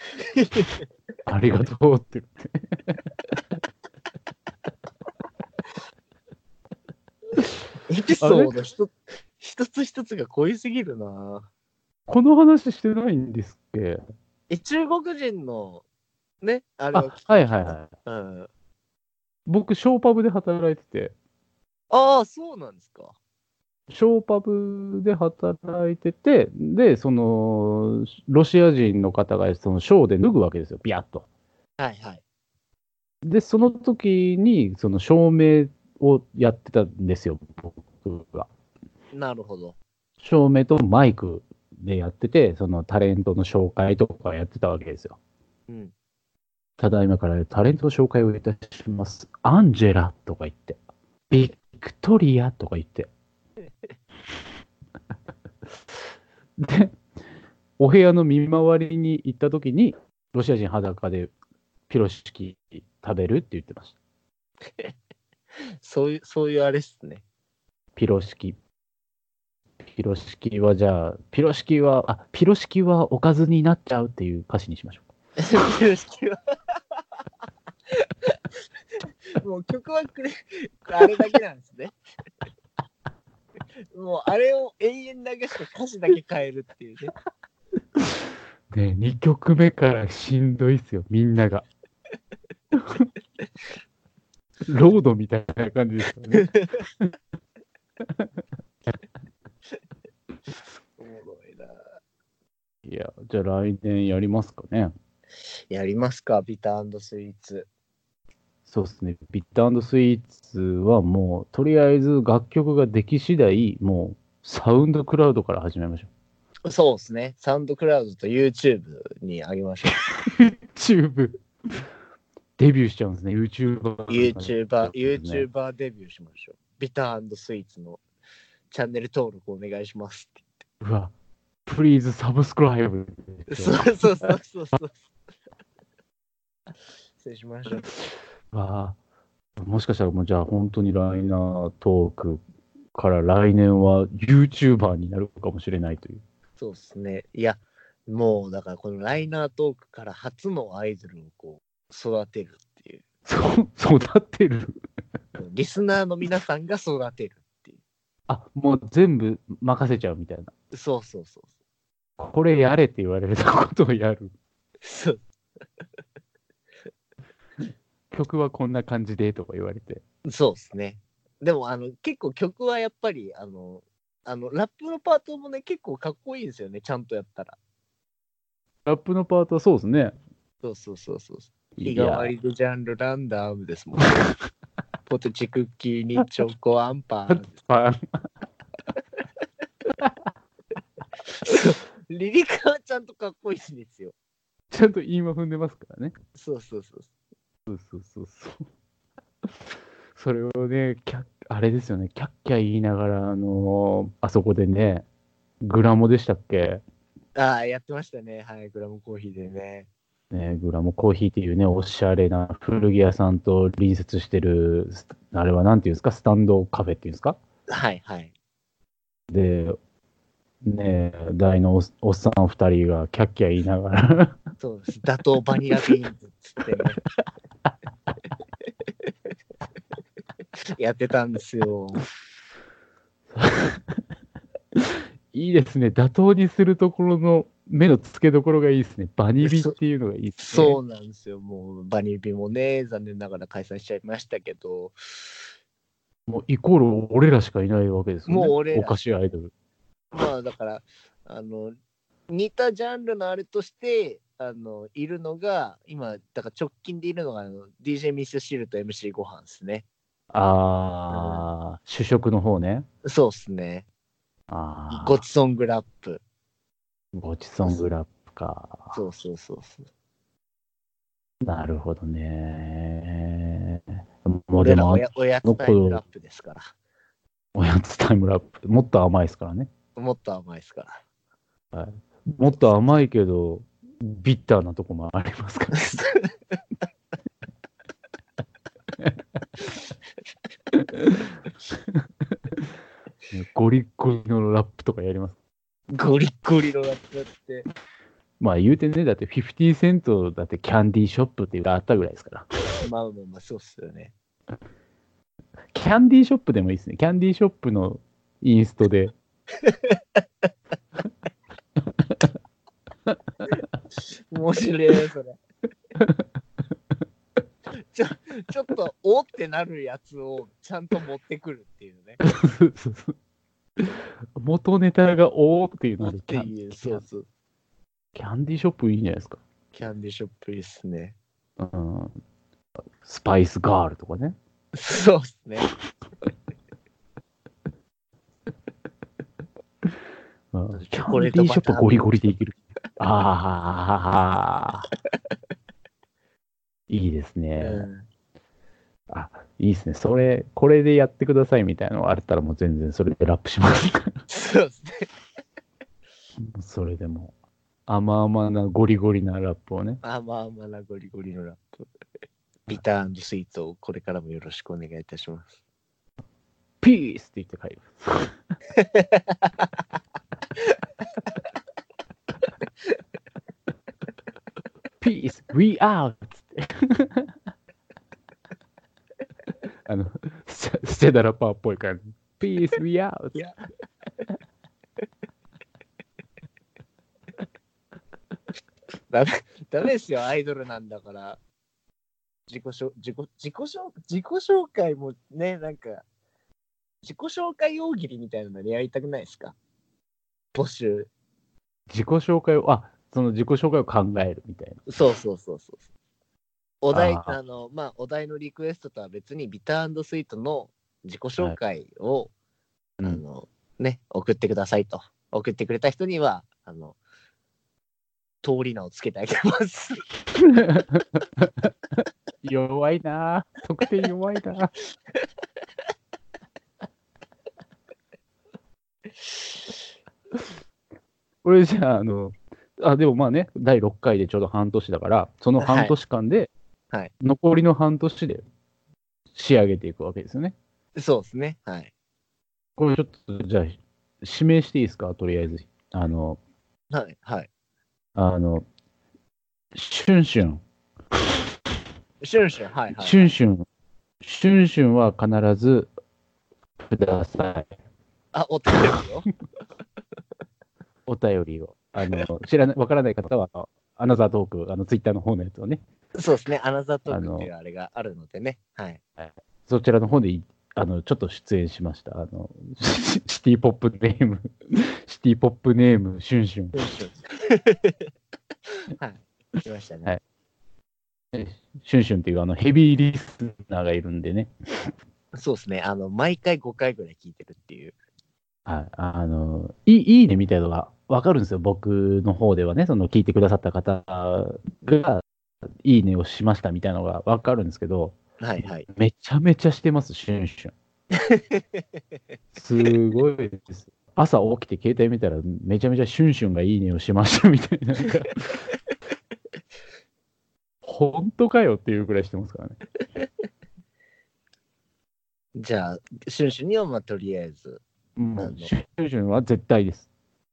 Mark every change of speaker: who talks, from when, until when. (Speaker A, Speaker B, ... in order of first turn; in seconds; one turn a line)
Speaker A: 0.2-0.8
Speaker B: 1.3-3.1
Speaker A: 7.9-11.5
Speaker B: 8.2-8.5
Speaker B: 12.1-14.0
Speaker A: 14.5-15.8
Speaker A: 16.4-18.5
Speaker B: 16.9-17.9
Speaker B: 19.4-21.1
Speaker A: 21.9-23.1
Speaker B: 23.9-31.3
Speaker A: 31.8-32.2
Speaker B: 33.2-38.5
Speaker A: 39.1-39.8
Speaker B: 40.2-45.2
Speaker A: 45.7-45.9
Speaker B: 46.8-50.8
Speaker B: 51.3-53.1
Speaker B: 56.6-57.0
Speaker B: 57.8-61.3
Speaker B: 61.9-64.0
Speaker A: 65.8-67.2
Speaker B: 68.0-68.6
Speaker B: 69.8-75.1
Speaker A: 75.4-76.3
Speaker A: 77.9-78.3
Speaker A: 79.4-81.9
Speaker A: 83.9-87.1
Speaker B: 88.0-91.6
Speaker B: 92.7-93.1
Speaker B: 94.7-97.1
Speaker A: 96.3-96.8
Speaker B: 98.0-98.3
Speaker A: 101.0-101.8
Speaker B: 102.8-104.9
Speaker A: 105.7-107.7
Speaker B: 108.7-116.1
Speaker A: 116.7-120.0
Speaker B: 120.1-121.8
Speaker B: 122.6-125.5
Speaker A: 124.1-128.0
Speaker A: 128.7-130.4
Speaker B: 130.8-131.1
Speaker B: 131.7-134.3
Speaker A: 133.5-135.0
Speaker A: 137.2-137.9
Speaker B: 138.5-139.0
Speaker B: 139.6-142.4
Speaker B: 142.9-146.2
Speaker A: 146.6-153.0
Speaker B: 153.2-154.8
Speaker A: 155.4-157.8
Speaker B: 158.3-160.5
Speaker A: 160.7-161.5
Speaker B: 162.2-164.3
Speaker A: 164.8-165.2
Speaker B: 168.1-170.0
Speaker A: 170.2-177.6
Speaker B: 178.8-180.1
Speaker A: 180.6-184.2
Speaker B: 181.8-182.3
Speaker A: 185.1-187.5
Speaker B: 187.3-188.3
Speaker B: 189.9-190.3
Speaker A: 191.4-194.1
Speaker B: 194.7-196.1
Speaker A: 196.4-197.1
Speaker B: 197.7-198.6
Speaker B: 200.1-205.0
Speaker B: 205.6-206.8
Speaker A: 207.3-209.9
Speaker B: 210.3-217.4
Speaker A: 217.7-218.3
Speaker B: 219.3-219.8
Speaker B: 220.6-224.4
Speaker A: 224.6-227.0
Speaker A: 230.8-232.1
Speaker B: 233.3-234.0
Speaker B: 234.7-240.8
Speaker A: 239.4-239.7
Speaker A: 240.4-244.9
Speaker B: 246.3-249.5
Speaker A: 248.3-249.0
Speaker A: 250.1-251.7
Speaker A: 252.3-259.8
Speaker B: 260.3-262.9
Speaker A: 261.1-261.4
Speaker A: 263.0-263.9
Speaker B: 264.5-265.2
Speaker A: 264.9-266.2
Speaker B: 267.1-268.9
Speaker A: 268.9-269.9
Speaker B: 271.4-276.0
Speaker A: 274.6-276.7
Speaker B: 277.5-279.7
Speaker A: 279.9-281.0
Speaker B: 281.7-285.9
Speaker A: 285.8-286.3
Speaker B: 290.7-292.7
Speaker B: 293.3-295.4
Speaker A: 295.9-297.6
Speaker B: 298.4-302.5
Speaker A: 302.8-304.1
Speaker B: 305.7-309.1
Speaker A: 309.6-310.0
Speaker B: 312.0-312.3
Speaker A: 314.3-315.4
Speaker B: 315.9-316.2
Speaker A: 317.9-322.2
Speaker B: 322.2-323.1
Speaker B: 323.8-327.0
Speaker A: 326.0-327.2
Speaker B: 328.1-329.4
Speaker A: 329.7-331.1
Speaker B: 331.6-332.1
Speaker B: 333.0-334.4
Speaker A: 334.7-335.7
Speaker B: 340.5-344.9
Speaker A: 340.7-342.2
Speaker B: 346.9-347.8
Speaker A: 347.6-348.1
Speaker B: 349.1-354.1
Speaker A: 354.3-355.1
Speaker B: 356.4-357.3
Speaker B: 357.9-360.0
Speaker A: 360.0-361.9
Speaker A: 362.7-365.5
Speaker B: 366.8-368.3
Speaker A: 368.8-369.4
Speaker B: 375.0-377.3
Speaker B: 379.9-383.4
Speaker A: 389.1-391.4
Speaker A: 392.5-396.0
Speaker A: 397.0-399.5
Speaker A: 400.5-401.1
Speaker B: 401.9-404.8
Speaker A: 404.9-405.8
Speaker A: 406.8-412.3
Speaker B: 406.9-407.4
Speaker A: 413.0-417.0
Speaker A: 418.4-420.0
Speaker B: 420.3-421.7
Speaker B: 422.4-424.7
Speaker B: 431.4-436.5
Speaker A: 435.6-435.9
Speaker B: 437.2-438.4
Speaker B: 439.3-440.5
Speaker A: 440.9-441.9
Speaker B: 442.8-446.4
Speaker A: 446.9-447.5
Speaker B: 448.1-448.6
Speaker B: 449.7-450.6
Speaker A: 452.2-453.3
Speaker B: 453.0-453.6
Speaker B: 454.2-455.9
Speaker B: 456.8-457.7
Speaker A: 458.3-459.3
Speaker B: 461.1-465.8
Speaker A: 466.1-469.0
Speaker B: 467.1-467.5
Speaker B: 469.2-476.7
Speaker A: 476.7-478.0
Speaker A: 479.0-480.1
Speaker B: 481.3-484.9
Speaker A: 485.3-487.9
Speaker B: 488.6-495.2
Speaker B: 495.8-498.2
Speaker A: 498.4-498.9
Speaker B: 498.9-500.7
Speaker A: 501.2-501.6
Speaker B: 502.5-508.7
Speaker B: 510.8-512.8
Speaker A: 515.5-517.8
Speaker B: 518.1-520.1
Speaker A: 518.4-518.7